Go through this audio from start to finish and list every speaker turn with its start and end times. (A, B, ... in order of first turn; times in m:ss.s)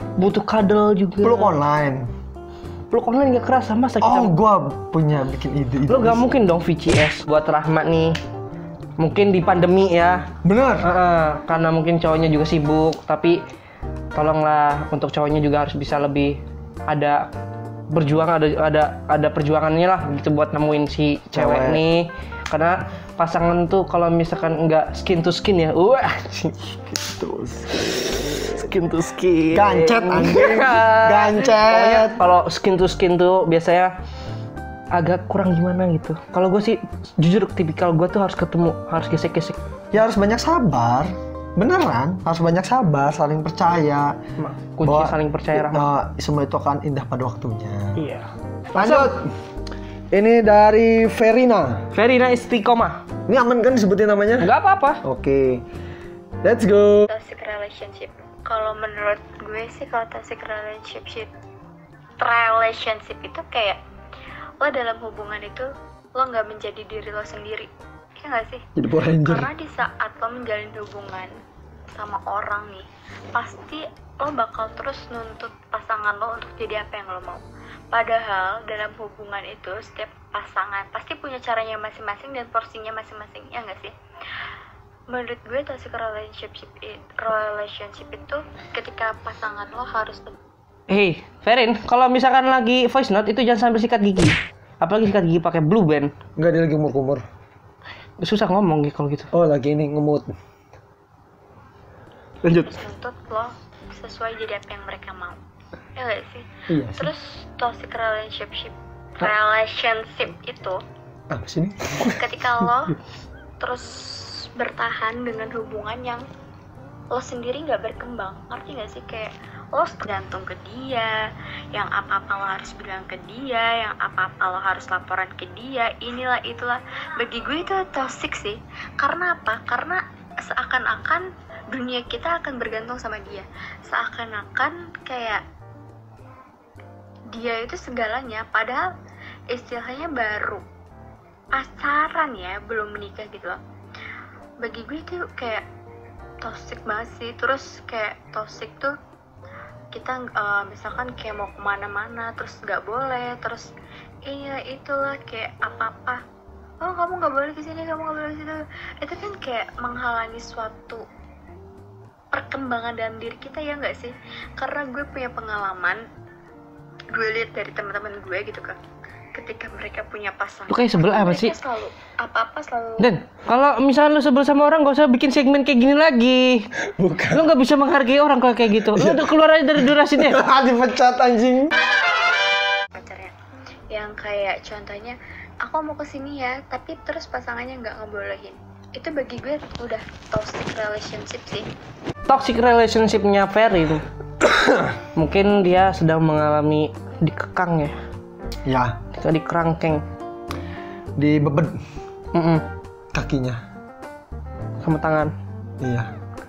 0:00.2-0:01.6 A
0:01.2-0:02.1 B
0:02.9-0:04.3 A
0:04.0-0:06.3 B
0:05.9-0:08.2 A
0:09.0-0:10.3 A
0:10.4-0:10.9 B
0:10.8-0:13.4 A
0:14.2-0:17.3 A
0:17.9-0:26.8 A
0:21.3-0:21.8 B
0:27.0-0:28.7 B
0:27.8-0:33.9 A
0:29.5-0:32.2 B
0:34.9-0:39.6 A
0:39.9-0:44.2 B
0:44.4-0:45.9 A
0:44.8-0:48.0 B
0:48.0-0:49.1 A
0:48.8-0:49.3 B
0:50.1-0:51.9 B
0:51.9-0:53.0 A
0:53.3-0:54.5 B
0:54.4-0:55.0 A
0:55.0-0:55.6 B
0:56.4-0:57.1 B
0:57.1-1:01.3 C
1:02.2-1:03.8 C
1:04.6-1:11.3 C
1:08.8-1:09.5 B
1:11.9-1:23.9 C
1:25.1-1:30.4 C
1:30.9-1:36.1 A
1:36.4-1:37.3 B
1:38.2-1:39.3 A
1:39.3-1:40.3 B
1:42.4-1:42.8 A
1:42.6-1:45.4 C
1:46.0-1:50.8 C
1:46.7-1:47.1 B
1:51.3-1:52.2 B
1:52.1-1:53.0 C
1:53.6-1:56.3 C
1:57.1-2:15.4 C
2:17.3-2:18.9 C
2:19.5-2:20.7 C
2:21.6-2:23.6 C
2:24.6-2:25.6 C
2:26.4-2:29.0 C
2:29.9-2:33.7 C
2:34.3-2:36.2 C
2:36.8-2:41.0 C
2:42.3-2:46.0 C
2:47.1-2:48.8 C
2:49.3-2:53.1 C
2:50.7-2:51.6 A
2:53.0-2:56.7 A
2:56.8-2:57.5 B
2:57.3-3:00.4 A
2:58.8-2:59.3 B
2:59.8-3:01.8 B
3:02.9-3:03.3 C
3:03.9-3:11.7 C
3:12.3-3:14.0 A
3:14.4-3:14.9 B
3:15.2-3:18.0 A
3:18.7-3:19.0 B
3:19.1-3:20.0 A
3:21.2-3:21.8 B
3:22.3-3:22.6 A
3:23.1-3:23.6 B
3:24.8-3:25.3 A
3:25.8-3:26.1 B